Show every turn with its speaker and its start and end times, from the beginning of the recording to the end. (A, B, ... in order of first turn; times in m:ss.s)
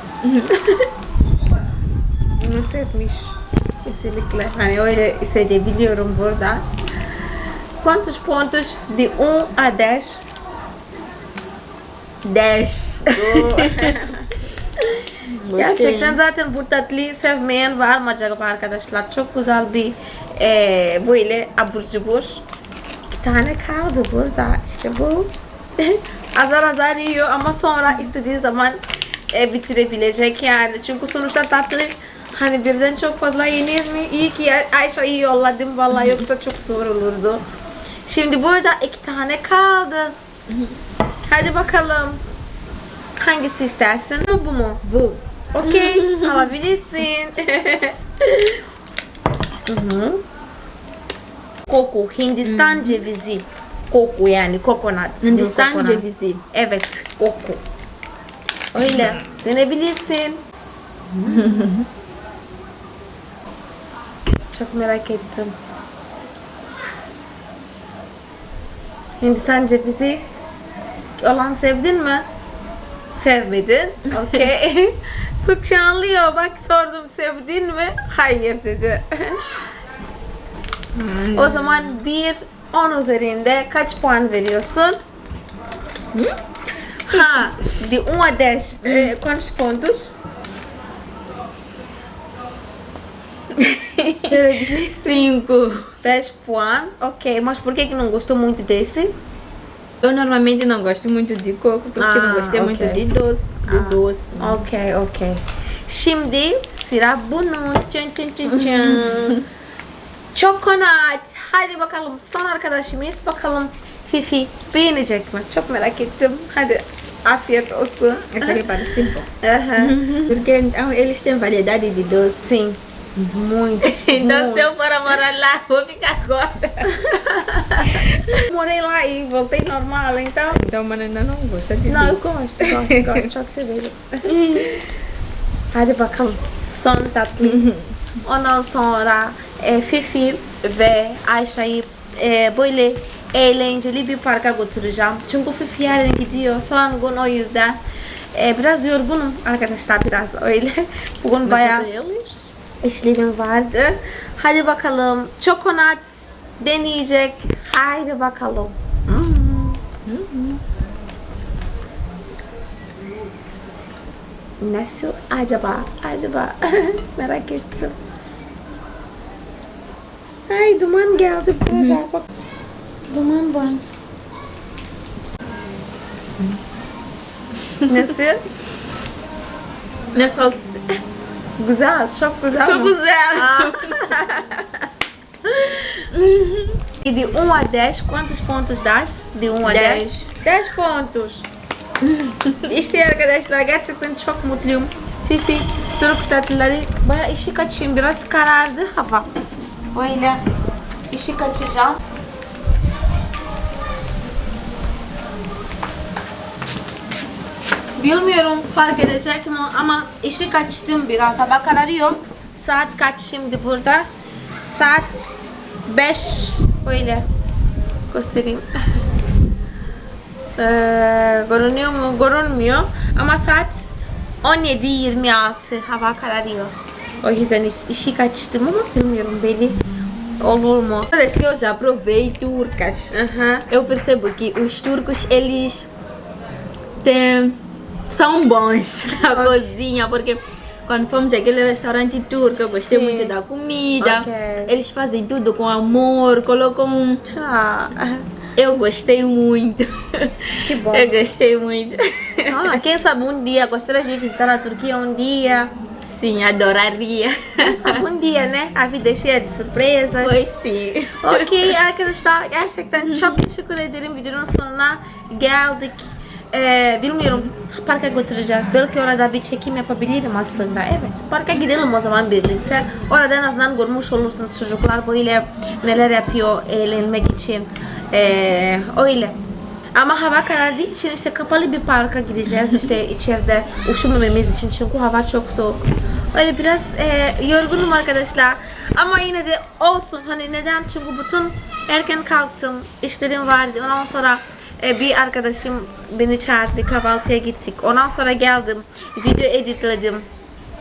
0:00.2-0:00.5 A
0:00.5-0:00.9 B
0:02.4-0:06.7 B
0:07.8-0:10.2 B
0:12.2-0:14.1 A
0:13.1-0:22.4 B
0:15.2-0:16.2 A
0:23.1-0:28.8 B
0:29.3-0:37.4 B
0:38.1-0:40.2 B
0:40.5-0:40.8 A
0:41.3-0:42.2 B
0:43.2-0:44.8 B
0:44.8-0:46.5 A
0:45.5-0:48.6 B
0:49.7-0:50.2 B
0:51.7-0:57.6 B
0:52.4-0:53.0 A
0:55.2-0:56.4 A
0:58.7-1:00.4 B
0:58.8-0:59.2 A
1:01.1-1:01.6 B
1:01.2-1:01.9 A
1:04.5-1:05.6 B
1:09.2-1:10.2 B
1:11.2-1:12.2 B
1:13.1-1:19.4 B
1:20.9-1:22.0 A
1:21.4-1:25.0 B
1:27.1-1:30.2 B
1:28.8-1:29.1 A
1:33.5-1:35.9 A
1:34.2-1:35.3 B
1:36.0-1:39.1 B
1:40.0-1:44.6 A
1:42.0-1:43.0 B
1:43.6-1:49.4 B
1:48.5-1:49.4 A
1:50.3-2:00.0 B
1:58.3-2:02.4 A
2:02.4-2:04.7 B
2:03.8-2:07.0 A
2:06.9-2:10.6 B
2:07.8-2:08.4 A
2:10.5-2:13.3 A
2:11.9-2:14.9 B
2:15.7-2:17.7 B
2:17.4-2:18.0 A
2:18.2-2:27.8 B
2:28.3-2:31.9 B
2:31.4-2:32.4 A
2:32.8-2:39.8 B
2:40.1-2:40.6 A
2:44.6-2:48.0 B
2:50.5-2:52.4 B
2:51.7-2:52.1 A
2:53.1-2:53.8 B
2:57.8-2:58.1 A
2:57.8-2:58.4 B
3:00.1-3:01.0 A
3:01.6-3:04.8 B
3:02.6-3:04.2 A
3:05.5-3:06.8 A
3:07.0-3:11.4 B
3:09.6-3:10.3 A
3:12.0-3:12.7 A
3:12.6-3:19.3 B
3:19.9-3:20.4 B
3:21.1-3:22.0 B
3:28.0-3:34.1 B
3:34.6-3:37.2 B
3:38.1-3:39.1 B
3:40.6-3:43.9 B
3:44.4-3:49.8 B
3:50.4-3:51.1 B
3:51.1-3:53.1 A
3:53.1-3:53.6 B
3:53.7-3:55.9 A
3:57.0-4:07.2 A
3:59.3-3:59.7 B
4:02.9-4:03.3 B
4:04.0-4:04.7 B
4:07.3-4:08.2 B
4:08.6-4:12.8 A
4:10.6-4:11.1 B
4:12.5-4:15.7 B
4:16.0-4:18.0 A
4:17.6-4:20.4 B
4:20.2-4:21.8 A
4:21.2-4:39.4 B
4:23.0-4:23.4 A
4:40.0-5:00.3 B